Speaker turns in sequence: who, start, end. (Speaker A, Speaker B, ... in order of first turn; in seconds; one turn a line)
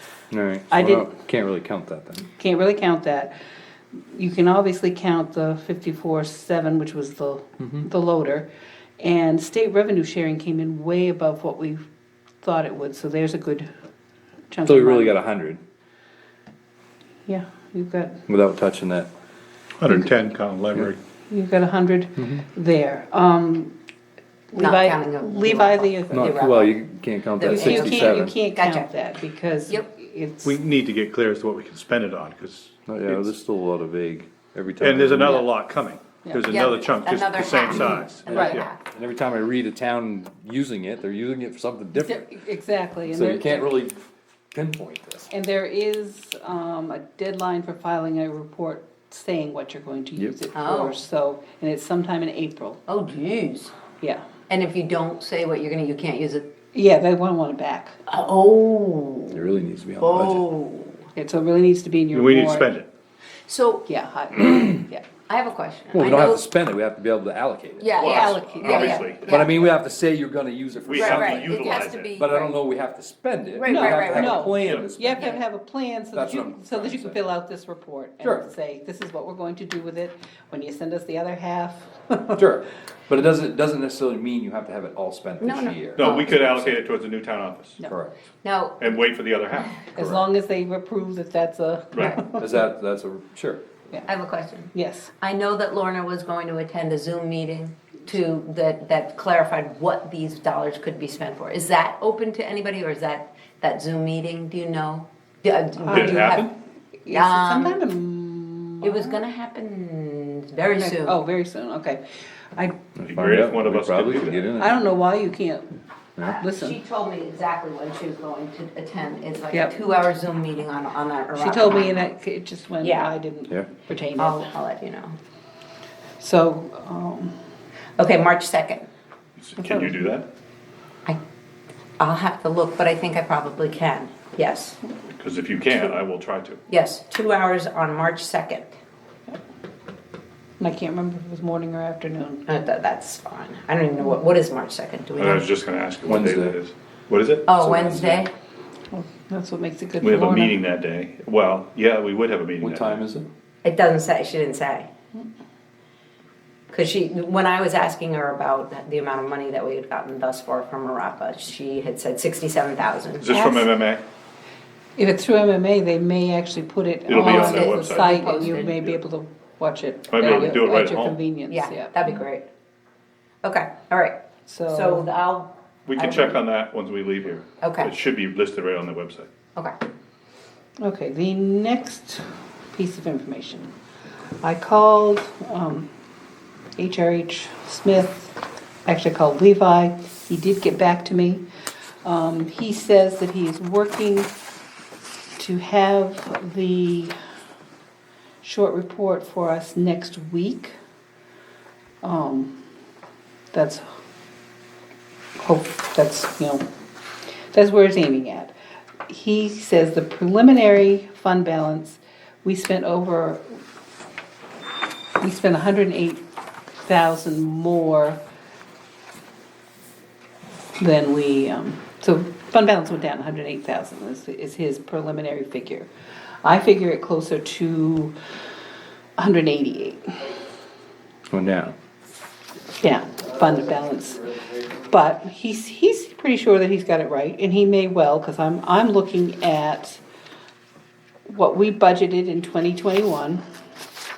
Speaker A: 0.3-2.3
Speaker B: 0.7-1.1
Speaker B: 2.4-3.4
Speaker B: 3.9-8.5
Speaker A: 7.6-7.9
Speaker B: 9.0-11.8
Speaker B: 12.4-13.7
Speaker B: 14.5-15.2
Speaker A: 14.7-15.6
Speaker B: 17.3-18.2
Speaker A: 18.3-19.1
Speaker C: 19.8-21.0
Speaker B: 19.9-20.2
Speaker B: 21.3-23.8
Speaker A: 22.2-22.4
Speaker B: 24.5-26.4
Speaker D: 24.6-26.8
Speaker A: 26.1-28.4
Speaker D: 27.4-28.9
Speaker B: 27.5-30.6
Speaker C: 30.4-33.3
Speaker A: 32.9-35.4
Speaker C: 34.8-38.7
Speaker B: 36.2-36.6
Speaker D: 36.5-38.8
Speaker A: 38.3-42.3
Speaker B: 38.3-38.6
Speaker B: 42.0-43.7
Speaker A: 43.1-44.0
Speaker A: 44.5-45.3
Speaker B: 45.3-52.8
Speaker D: 50.5-51.0
Speaker D: 52.9-53.7
Speaker B: 54.0-54.3
Speaker D: 54.5-56.5
Speaker B: 56.7-58.0
Speaker D: 58.1-61.1
Speaker A: 59.3-60.5
Speaker B: 61.2-62.7
Speaker C: 62.1-62.9
Speaker D: 63.5-63.9
Speaker B: 63.9-65.1
Speaker D: 65.3-66.4
Speaker A: 65.9-75.3
Speaker D: 67.8-69.6
Speaker C: 68.0-69.3
Speaker B: 68.0-69.4
Speaker C: 70.8-72.2
Speaker D: 70.9-72.6
Speaker D: 73.5-74.6
Speaker B: 73.7-82.4
Speaker C: 74.6-74.8
Speaker A: 76.2-77.2
Speaker A: 78.2-78.5
Speaker A: 82.3-86.8
Speaker D: 85.4-86.5
Speaker C: 86.0-87.8
Speaker A: 87.8-88.1
Speaker D: 88.4-89.0
Speaker C: 88.8-90.2
Speaker D: 89.5-90.0
Speaker B: 90.0-92.6
Speaker C: 91.9-92.2
Speaker A: 92.3-93.6
Speaker D: 94.1-106.5
Speaker B: 94.7-95.1
Speaker B: 105.8-106.4
Speaker C: 105.9-106.5
Speaker B: 107.0-109.2
Speaker D: 107.1-107.8
Speaker D: 108.8-111.2
Speaker B: 110.8-112.0
Speaker A: 113.0-114.8
Speaker C: 113.1-114.5
Speaker B: 114.5-116.8
Speaker D: 116.5-122.1
Speaker B: 119.5-119.8
Speaker B: 121.4-124.5
Speaker D: 122.8-123.1
Speaker D: 124.2-125.2
Speaker B: 126.2-127.4
Speaker D: 128.0-128.9
Speaker C: 129.4-130.3
Speaker B: 129.6-130.0
Speaker D: 132.0-134.8
Speaker C: 135.1-136.6
Speaker D: 136.7-138.8
Speaker B: 140.6-142.5
Speaker D: 142.5-145.5
Speaker C: 145.2-147.5
Speaker A: 146.1-146.6
Speaker D: 147.5-148.3
Speaker A: 147.6-148.3
Speaker B: 148.9-150.6
Speaker C: 150.0-153.1
Speaker A: 152.6-153.3
Speaker D: 153.6-154.9
Speaker D: 156.7-163.3
Speaker C: 163.2-164.0
Speaker B: 163.3-163.7
Speaker B: 165.0-172.0
Speaker C: 167.1-168.6
Speaker D: 167.2-168.8
Speaker C: 170.1-171.2
Speaker D: 170.2-170.6
Speaker D: 171.5-172.5
Speaker D: 173.4-176.4
Speaker B: 174.5-175.1
Speaker C: 175.9-179.3
Speaker D: 177.6-177.9
Speaker B: 180.8-183.7
Speaker B: 184.4-185.9
Speaker B: 186.8-191.4
Speaker B: 192.0-194.3
Speaker B: 195.4-197.2
Speaker B: 198.4-200.7
Speaker B: 202.0-202.6
Speaker B: 203.5-204.0
Speaker B: 205.4-206.7
Speaker B: 207.5-208.6
Speaker B: 209.1-213.6
Speaker B: 215.2-216.2
Speaker B: 216.8-218.2
Speaker B: 220.8-225.9
Speaker B: 226.4-228.2
Speaker B: 229.2-230.4
Speaker A: 231.3-231.8
Speaker B: 232.8-240.0
Speaker B: 241.3-243.4